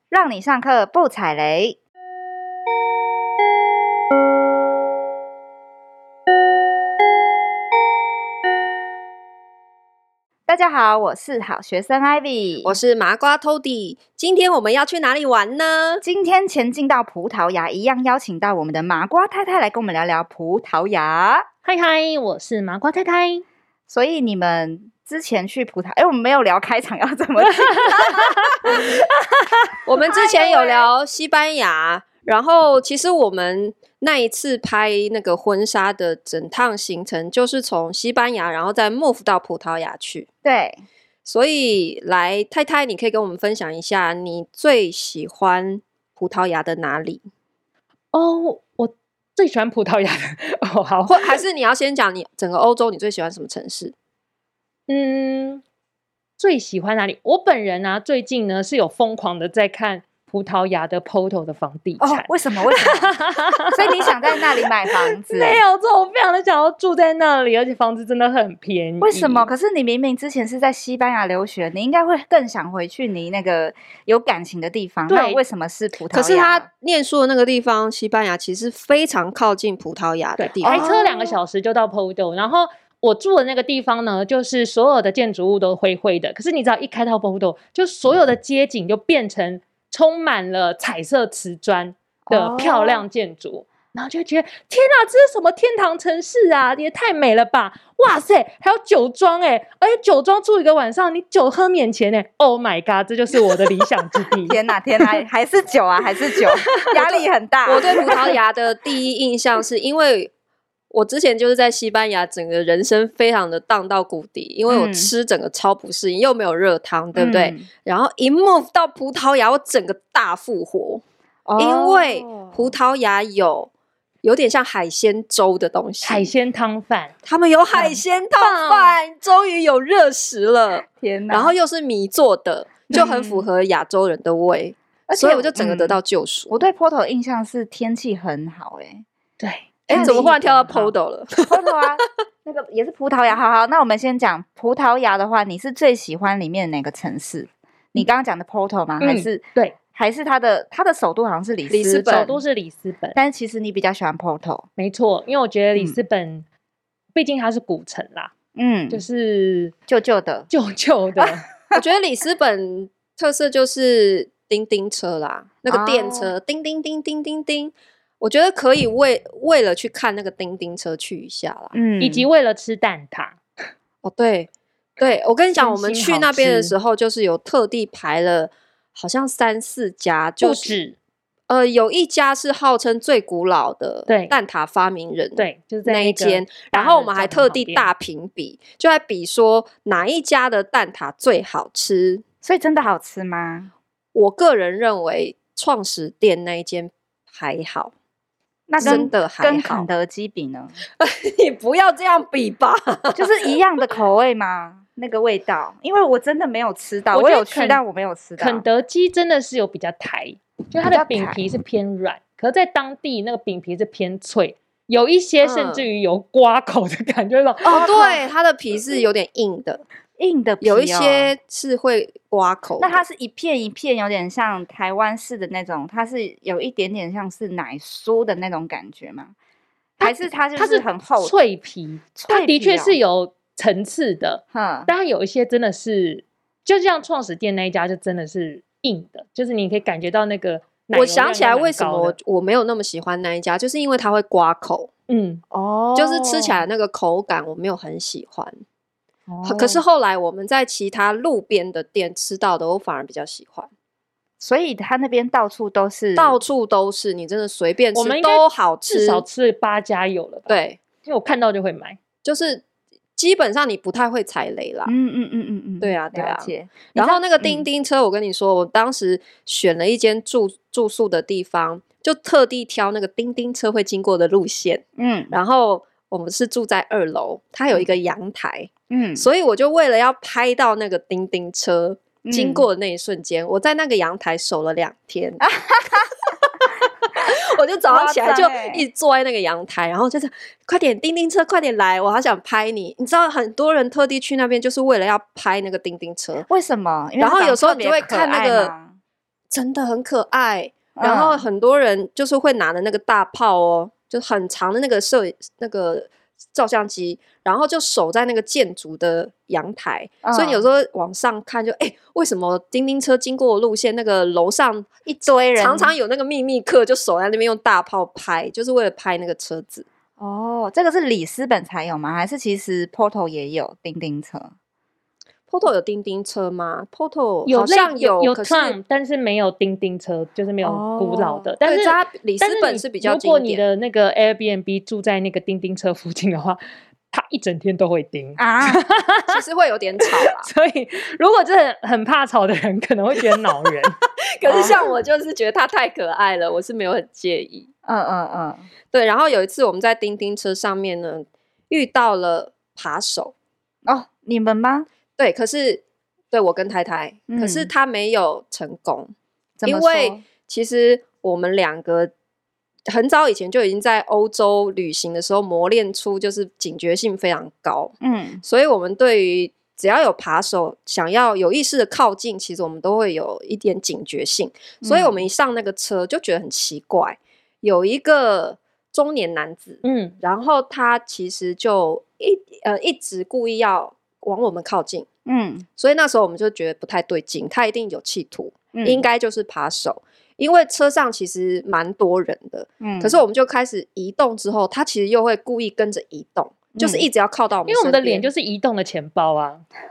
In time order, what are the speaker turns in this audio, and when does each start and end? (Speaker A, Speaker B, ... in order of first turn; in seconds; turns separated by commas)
Speaker A: 0.1-1.8, Speaker A: 10.5-12.8, Speaker B: 12.6-16.0, Speaker A: 16.0-21.5, Speaker C: 21.6-23.4, Speaker A: 23.9-28.9, Speaker C: 27.4-29.8, Speaker B: 29.9-40.3, Speaker A: 30.1-30.9, Speaker A: 40.4-40.8, Speaker B: 41.2-47.2, Speaker C: 48.1-51.3, Speaker B: 51.1-53.9, Speaker C: 54.9-55.6, Speaker C: 56.4-69.5, Speaker A: 62.0-65.6, Speaker A: 69.0-76.7, Speaker C: 75.1-75.4, Speaker B: 76.1-80.9, Speaker C: 80.4-104.6, Speaker A: 80.7-81.4, Speaker A: 92.3-93.1, Speaker A: 104.5-108.2, Speaker B: 107.0-110.3, Speaker B: 110.9-121.0, Speaker A: 114.7-115.1, Speaker A: 117.2-117.7, Speaker A: 121.5-122.7, Speaker B: 121.6-123.7, Speaker B: 124.2-126.3, Speaker C: 126.0-127.2, Speaker B: 127.2-136.6, Speaker C: 128.4-128.9, Speaker A: 130.9-131.5, Speaker A: 132.9-133.5, Speaker A: 135.1-136.0, Speaker A: 136.5-139.1, Speaker C: 139.4-140.9, Speaker B: 139.9-141.5, Speaker A: 139.9-140.3, Speaker A: 141.5-152.4, Speaker C: 149.0-149.8, Speaker B: 151.7-152.3, Speaker C: 152.1-153.2, Speaker A: 153.2-154.7, Speaker C: 154.8-156.5, Speaker C: 157.2-158.3, Speaker A: 158.6-159.1, Speaker C: 158.9-159.8, Speaker A: 159.9-160.5, Speaker C: 160.5-161.4, Speaker A: 161.2-161.8, Speaker B: 161.7-171.8, Speaker A: 165.7-166.3, Speaker A: 171.7-172.3, Speaker C: 172.0-173.4, Speaker B: 174.0-180.8, Speaker C: 175.6-176.7, Speaker C: 180.4-181.0, Speaker B: 181.5-192.2, Speaker C: 184.1-184.3, Speaker C: 185.4-187.9, Speaker A: 192.4-193.7, Speaker B: 194.1-197.9, Speaker A: 198.7-200.8, Speaker B: 198.8-199.9, Speaker C: 198.8-199.1, Speaker B: 201.0-203.5, Speaker A: 203.1-208.6, Speaker C: 207.1-207.8, Speaker C: 208.4-217.9, Speaker A: 210.8-211.4, Speaker B: 215.4-215.8, Speaker B: 217.7-219.8, Speaker A: 217.7-218.2, Speaker A: 220.2-221.3, Speaker B: 220.6-223.0, Speaker A: 222.8-229.3, Speaker A: 230.0-231.3, Speaker C: 230.0-242.2, Speaker A: 232.2-233.0, Speaker A: 234.5-234.9, Speaker B: 240.9-244.9, Speaker C: 245.1-245.4, Speaker A: 245.5-246.6, Speaker B: 245.9-248.6, Speaker A: 249.3-249.8, Speaker B: 249.4-253.7, Speaker A: 254.4-256.4, Speaker B: 256.2-259.2, Speaker C: 257.9-262.0, Speaker B: 260.5-260.8, Speaker B: 262.2-262.6, Speaker B: 263.2-264.9, Speaker A: 264.9-267.7, Speaker B: 265.8-285.5, Speaker A: 275.0-275.4, Speaker A: 278.9-279.3, Speaker A: 282.2-282.6, Speaker A: 285.4-286.1, Speaker B: 286.3-296.5, Speaker A: 287.9-288.8, Speaker A: 296.5-298.9, Speaker B: 297.2-298.7, Speaker B: 299.5-319.9, Speaker A: 301.0-301.4, Speaker A: 310.2-310.6, Speaker A: 315.2-316.0, Speaker A: 320.2-324.5, Speaker B: 325.5-328.8, Speaker C: 327.5-336.6, Speaker A: 330.6-331.5, Speaker B: 331.6-333.6, Speaker C: 337.1-339.4, Speaker A: 338.4-338.8, Speaker B: 339.3-340.5, Speaker C: 340.2-343.9, Speaker B: 344.4-347.7, Speaker A: 344.5-344.8, Speaker A: 347.9-348.6, Speaker B: 348.9-353.3, Speaker A: 353.9-354.9, Speaker B: 355.2-359.1, Speaker A: 357.3-357.7, Speaker A: 359.6-360.2, Speaker B: 359.6-362.1, Speaker B: 362.9-385.1, Speaker A: 368.0-368.4, Speaker A: 374.8-375.2, Speaker C: 379.8-380.2, Speaker A: 385.3-385.7, Speaker B: 385.8-398.3, Speaker A: 388.7-389.0, Speaker A: 392.8-393.2, Speaker A: 396.8-397.1, Speaker C: 397.7-399.6